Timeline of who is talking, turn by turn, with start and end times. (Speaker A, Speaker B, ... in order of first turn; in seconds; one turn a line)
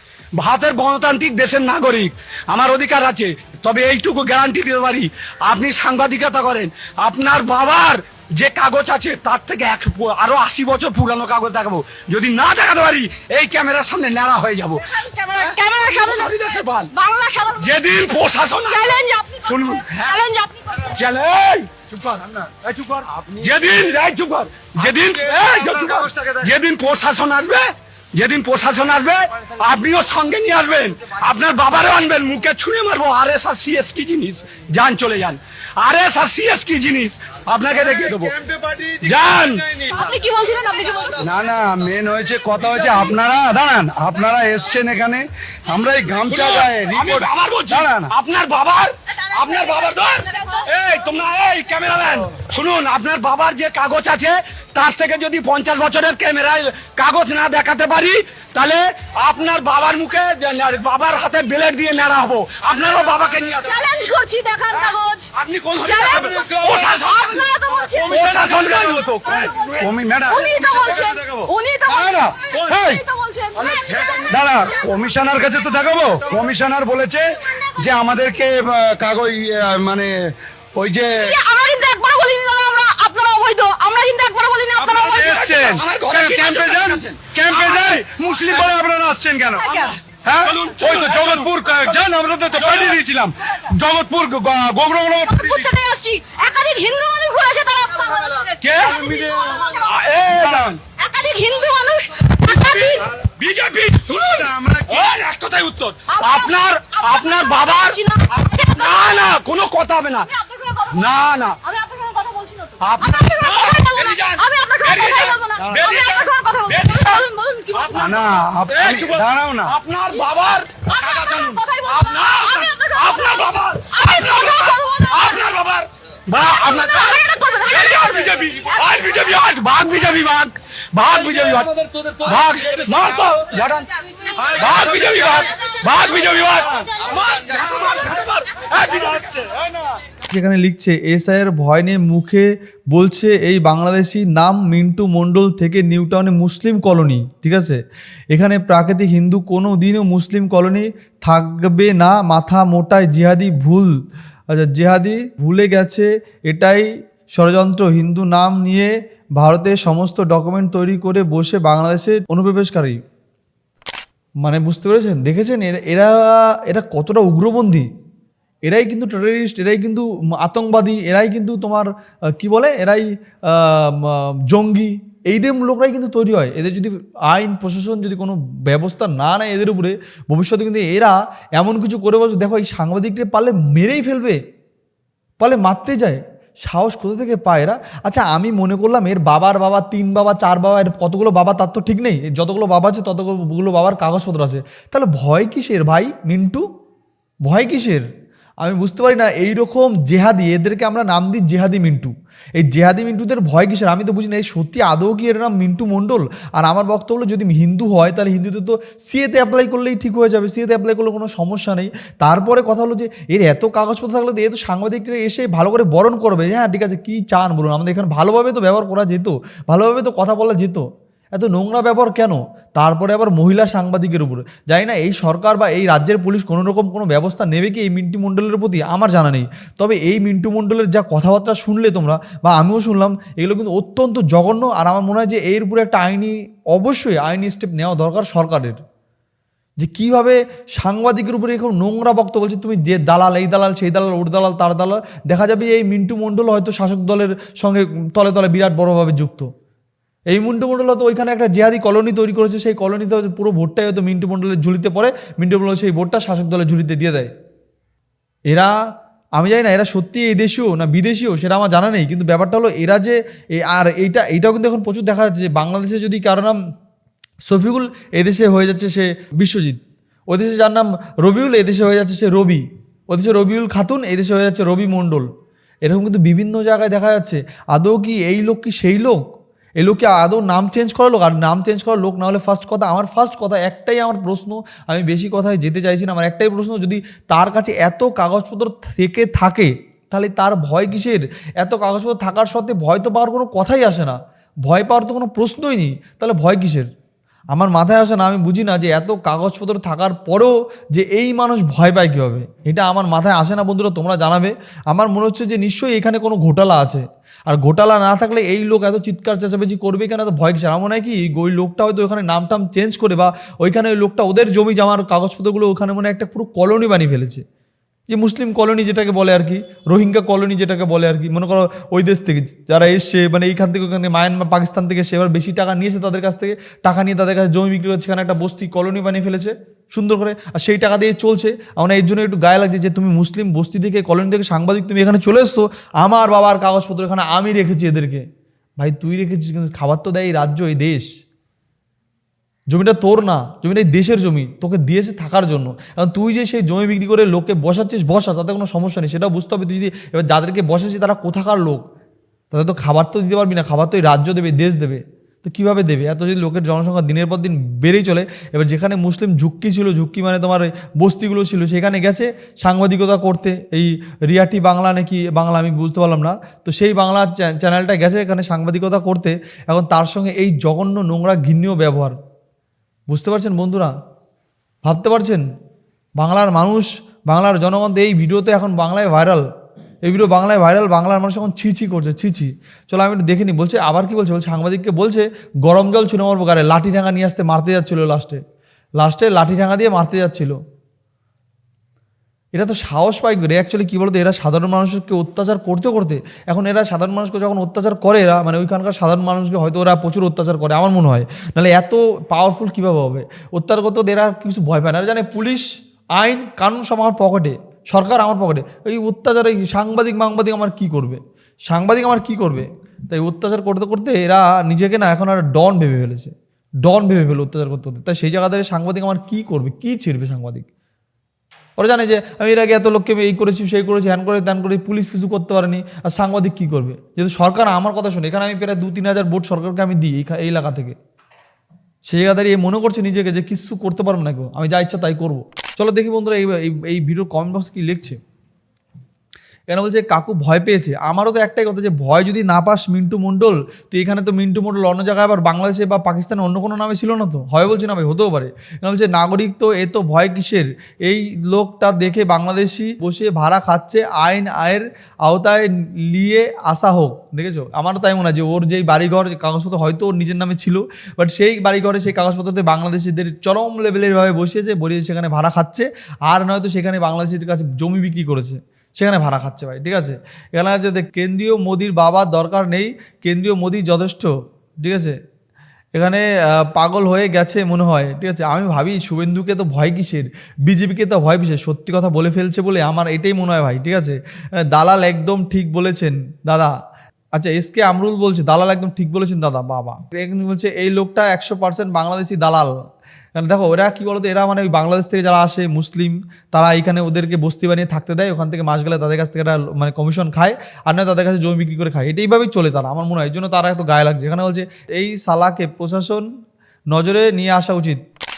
Speaker A: 0.4-16.9
Speaker B: 14.8-17.8
Speaker A: 17.6-20.2
Speaker B: 18.6-21.0
Speaker A: 20.8-38.4
Speaker C: 25.0-26.4
Speaker C: 38.4-39.0
Speaker A: 38.9-39.8
Speaker B: 39.9-41.3
Speaker C: 41.2-48.1
Speaker A: 46.3-63.9
Speaker B: 50.3-50.6
Speaker B: 63.4-65.3
Speaker A: 64.7-69.9
Speaker B: 65.8-75.0
Speaker C: 66.1-66.8
Speaker C: 68.2-71.5
Speaker A: 71.9-72.8
Speaker C: 72.7-73.0
Speaker A: 73.5-74.3
Speaker C: 74.3-81.4
Speaker B: 77.5-77.9
Speaker B: 81.1-85.6
Speaker C: 84.8-95.7
Speaker A: 85.3-88.8
Speaker B: 89.6-90.0
Speaker A: 89.6-92.0
Speaker A: 92.5-93.0
Speaker B: 95.2-99.9
Speaker A: 98.6-100.8
Speaker C: 99.0-99.6
Speaker C: 100.3-100.7
Speaker B: 101.0-103.1
Speaker A: 102.4-110.3
Speaker C: 104.2-105.1
Speaker B: 106.1-109.2
Speaker B: 110.3-118.2
Speaker A: 110.9-111.6
Speaker A: 112.8-133.9
Speaker C: 118.0-119.7
Speaker B: 120.8-125.5
Speaker B: 126.6-129.3
Speaker B: 134.1-138.2
Speaker A: 134.5-139.5
Speaker C: 134.6-135.4
Speaker C: 138.9-139.9
Speaker D: 140.3-147.8
Speaker D: 148.3-153.9
Speaker D: 154.5-163.0
Speaker D: 164.4-167.9
Speaker D: 168.7-184.4
Speaker D: 185.4-196.7
Speaker D: 197.4-198.1
Speaker D: 198.6-238.8
Speaker D: 239.8-249.5
Speaker D: 250.3-257.3
Speaker D: 259.4-266.6
Speaker D: 267.5-275.3
Speaker D: 275.9-279.2
Speaker D: 279.8-296.9
Speaker D: 297.5-317.4
Speaker D: 318.1-338.2
Speaker D: 338.8-341.1
Speaker D: 342.7-351.8
Speaker D: 352.5-372.2
Speaker D: 373.1-373.9
Speaker D: 374.8-375.4
Speaker D: 376.2-379.4
Speaker D: 380.0-388.4
Speaker D: 389.0-390.6
Speaker D: 392.5-420.7
Speaker D: 421.8-430.9
Speaker D: 432.1-438.2
Speaker D: 439.7-475.2
Speaker D: 475.9-486.7
Speaker D: 487.4-492.7
Speaker D: 493.4-506.3
Speaker D: 506.9-508.0